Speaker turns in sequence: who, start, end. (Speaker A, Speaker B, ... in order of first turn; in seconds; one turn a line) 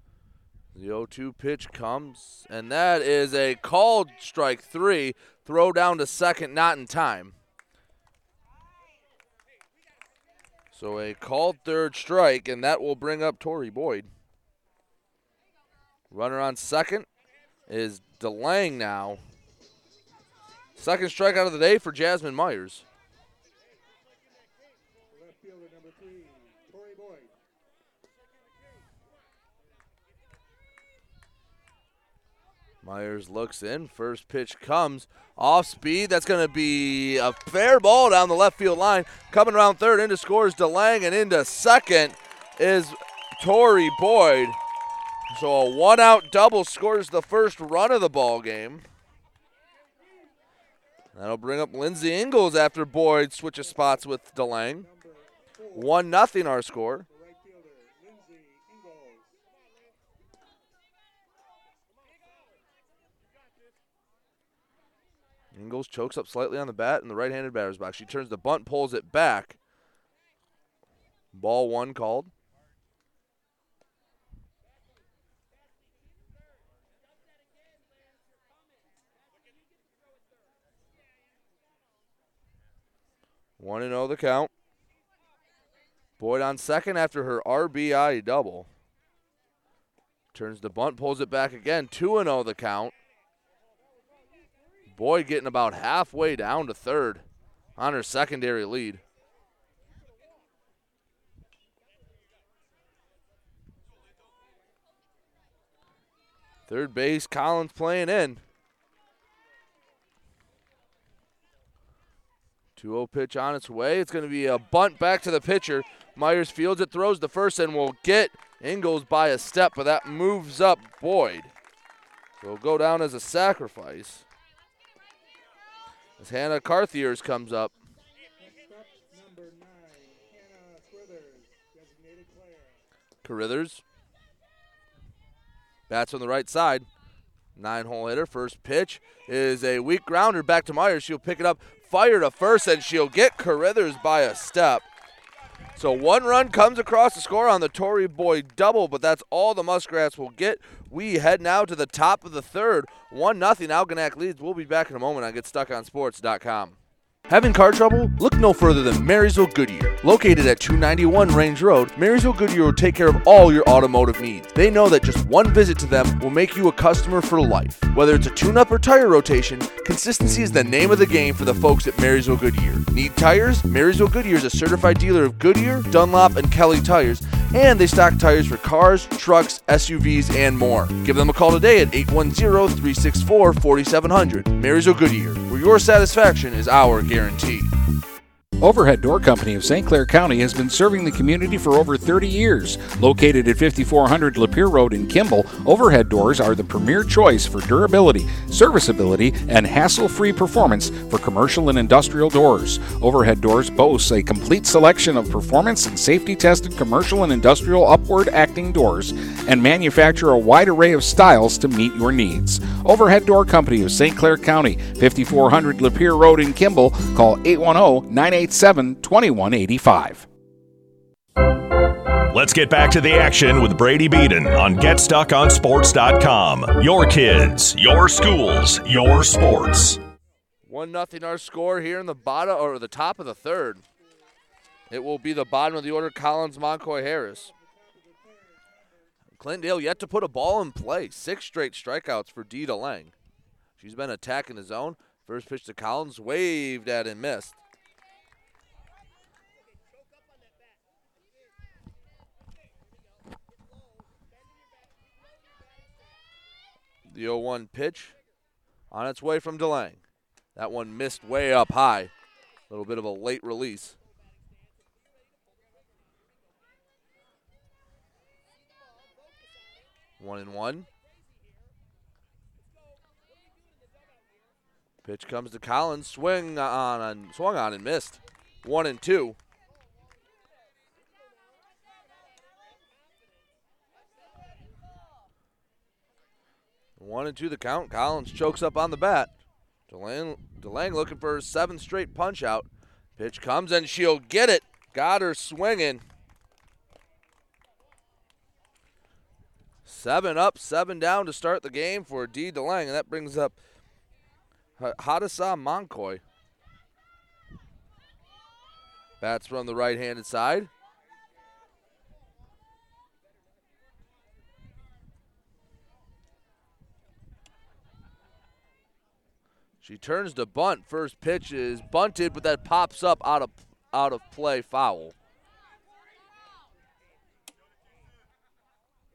Speaker A: 0.7-7.3
Speaker A: 10.7-14.1
Speaker A: 16.1-17.1
Speaker A: 17.7-19.2
Speaker A: 20.8-22.8
Speaker B: 25.1-27.4
Speaker A: 32.8-44.6
Speaker A: 45.3-48.8
Speaker A: 51.1-54.9
Speaker B: 53.6-54.0
Speaker B: 54.8-56.0
Speaker A: 55.7-57.0
Speaker B: 57.1-59.4
Speaker A: 65.5-69.6
Speaker A: 71.3-72.3
Speaker A: 83.6-84.5
Speaker A: 86.2-88.7
Speaker A: 90.3-92.9
Speaker A: 94.9-97.2
Speaker A: 97.8-99.0
Speaker A: 106.7-108.4
Speaker A: 112.8-121.5
Speaker A: 122.4-124.2
Speaker A: 126.2-127.7
Speaker B: 128.4-132.8
Speaker A: 133.2-133.8
Speaker A: 135.9-136.9
Speaker A: 137.6-144.8
Speaker A: 145.8-156.8
Speaker A: 157.3-187.7
Speaker C: 188.6-220.2
Speaker D: 222.3-230.0
Speaker A: 230.7-233.8
Speaker B: 234.0-234.3
Speaker A: 234.9-237.5
Speaker B: 236.9-240.1
Speaker A: 239.4-243.1
Speaker A: 243.8-247.6
Speaker A: 257.1-258.1
Speaker A: 258.9-260.0
Speaker A: 260.5-262.1
Speaker A: 262.7-264.0
Speaker A: 270.2-270.9
Speaker A: 275.0-279.4
Speaker A: 287.0-289.3
Speaker A: 289.9-296.0
Speaker A: 299.9-303.6
Speaker A: 304.8-306.2
Speaker A: 309.2-310.7
Speaker A: 319.8-325.1